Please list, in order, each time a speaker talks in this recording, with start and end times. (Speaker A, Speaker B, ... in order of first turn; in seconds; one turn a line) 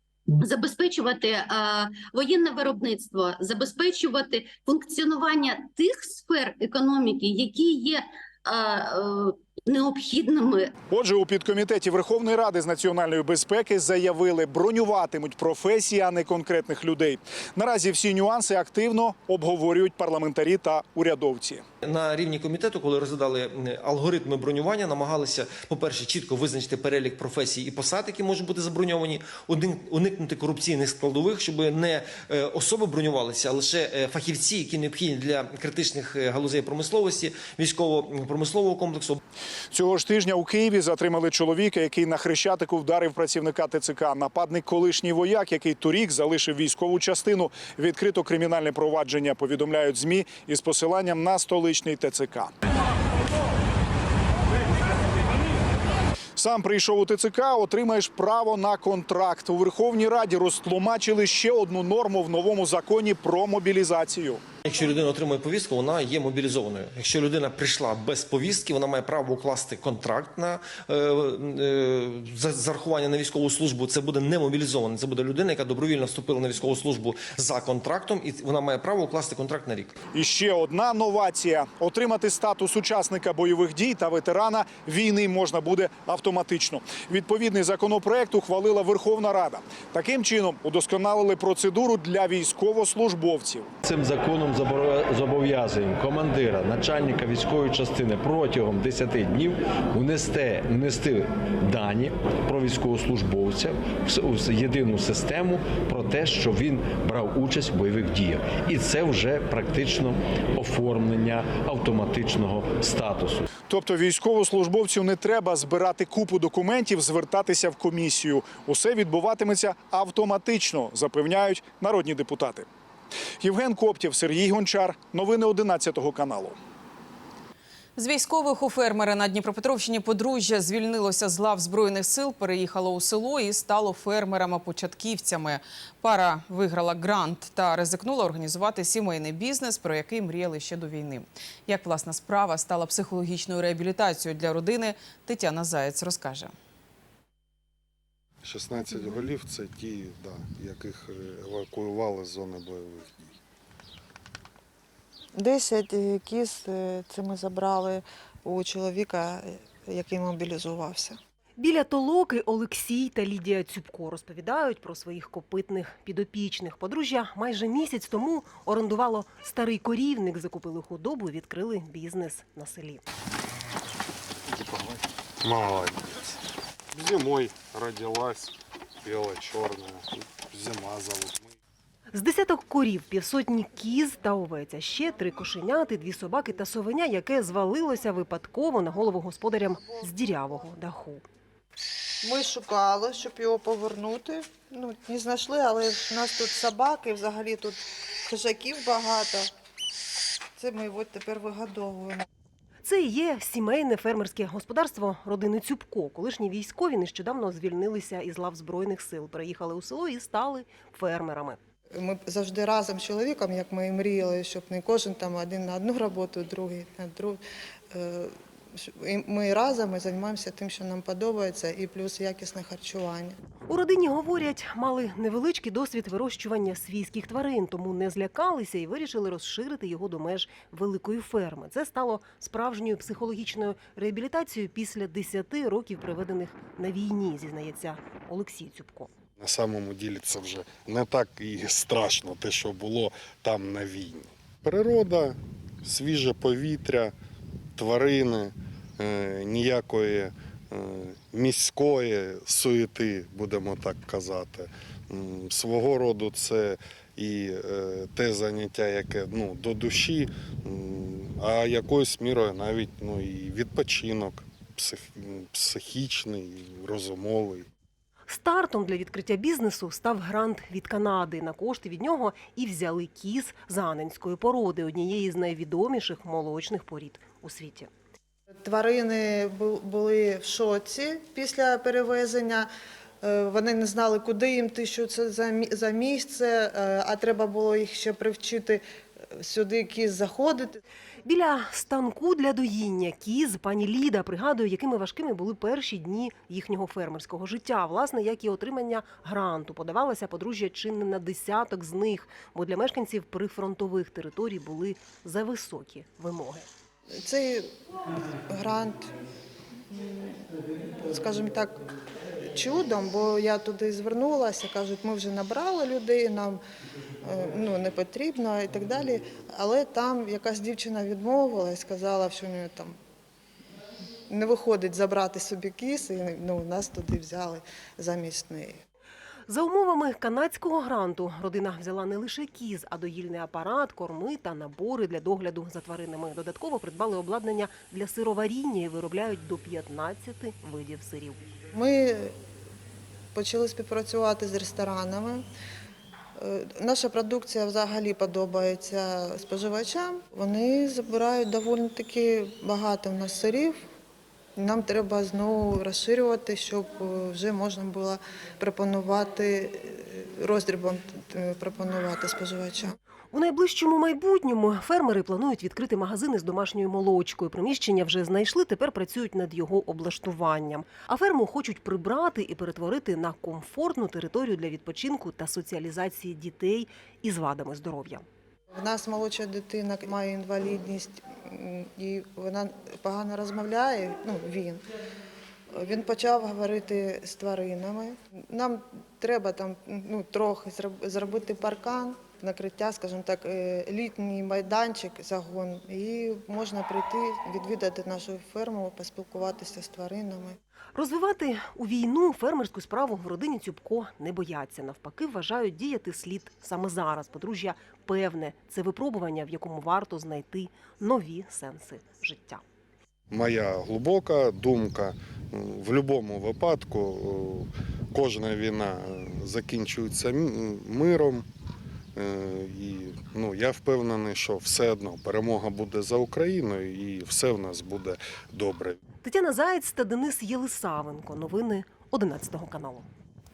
Speaker A: 0.4-10.7
Speaker B: 10.9-21.6
Speaker C: 21.8-39.2
Speaker B: 39.7-52.5
Speaker B: 56.4-64.4
Speaker C: 64.7-80.0
Speaker B: 80.1-93.7
Speaker D: 93.8-113.4
Speaker B: 113.7-122.7
Speaker B: 123.4-126.6
Speaker E: 128.0-146.5
Speaker F: 148.4-153.3
Speaker G: 155.3-161.2
Speaker H: 161.6-173.0
Speaker F: 174.5-176.2
Speaker F: 176.9-181.5
Speaker H: 182.1-191.2
Speaker G: 192.2-199.5
Speaker G: 200.6-202.3
Speaker H: 202.8-211.6
Speaker G: 211.9-217.4
Speaker G: 217.9-223.4
Speaker H: 223.7-239.1
Speaker F: 239.4-247.1
Speaker F: 247.8-267.7
Speaker H: 268.3-277.9
Speaker G: 278.6-282.7
Speaker G: 283.2-288.8
Speaker G: 289.4-290.8
Speaker H: 291.2-306.7
Speaker G: 307.2-307.7
Speaker G: 308.5-309.1
Speaker G: 309.9-310.5
Speaker G: 311.0-311.8
Speaker G: 312.5-316.6
Speaker G: 317.2-322.9
Speaker G: 324.3-328.8
Speaker H: 329.5-341.4
Speaker G: 341.7-342.4
Speaker G: 343.3-345.4
Speaker G: 346.4-353.8
Speaker G: 354.6-362.9
Speaker H: 363.3-378.2
Speaker G: 378.7-384.8
Speaker G: 385.8-400.6
Speaker H: 400.9-412.6
Speaker F: 413.3-421.4
Speaker F: 422.2-429.0
Speaker H: 429.2-433.1